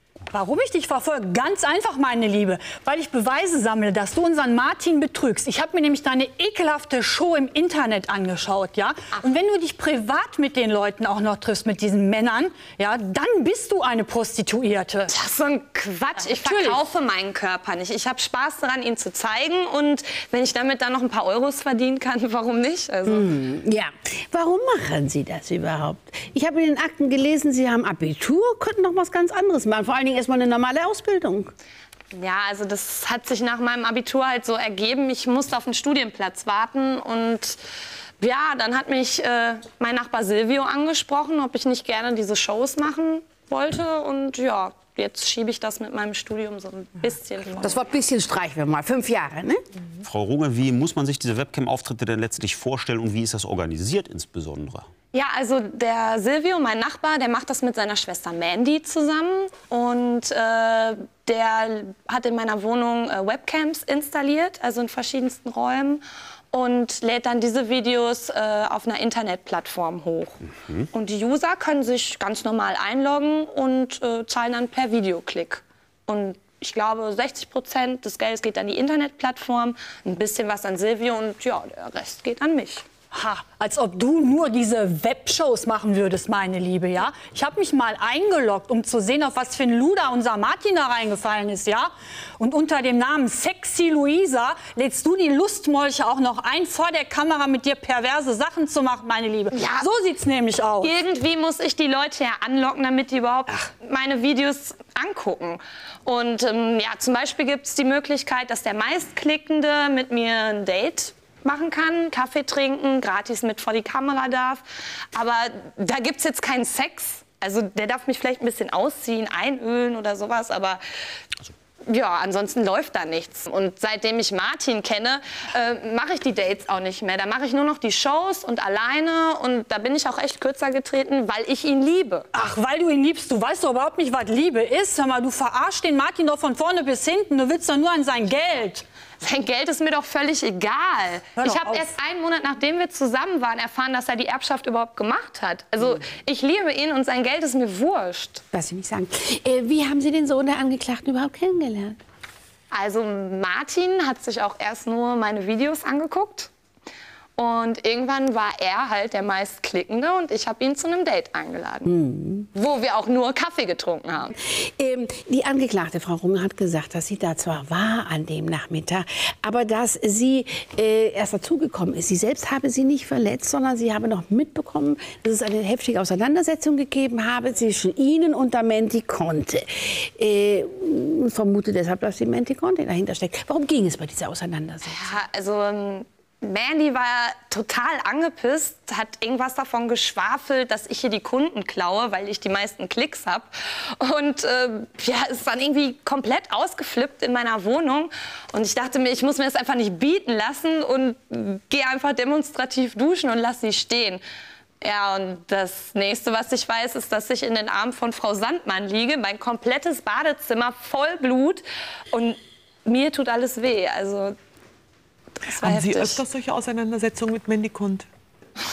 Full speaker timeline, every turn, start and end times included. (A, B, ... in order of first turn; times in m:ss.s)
0:00.3-0:15.1 A
0:15.1-0:23.3 B
0:16.2-0:16.8 A
0:23.0-0:31.5 C
0:32.1-0:37.6 B
0:38.2-0:47.8 B
0:47.5-0:49.6 C
0:50.0-0:54.9 D
0:55.1-1:22.8 B
1:23.1-1:41.0 A
1:39.5-1:39.9 B
1:40.8-1:54.6 B
1:55.1-2:00.8 B
2:01.9-2:12.3 B
2:12.3-2:18.8 A
2:19.2-2:28.4 B
2:21.4-2:21.8 A
2:28.5-2:32.0 C
2:32.7-2:36.5 B
2:37.4-2:41.9 B
2:41.8-2:42.5 C
2:42.5-2:44.3 B
2:44.4-3:05.2 C
3:04.9-3:24.2 B
3:24.8-3:34.4 B
3:35.5-3:36.2 B
3:35.5-3:38.1 E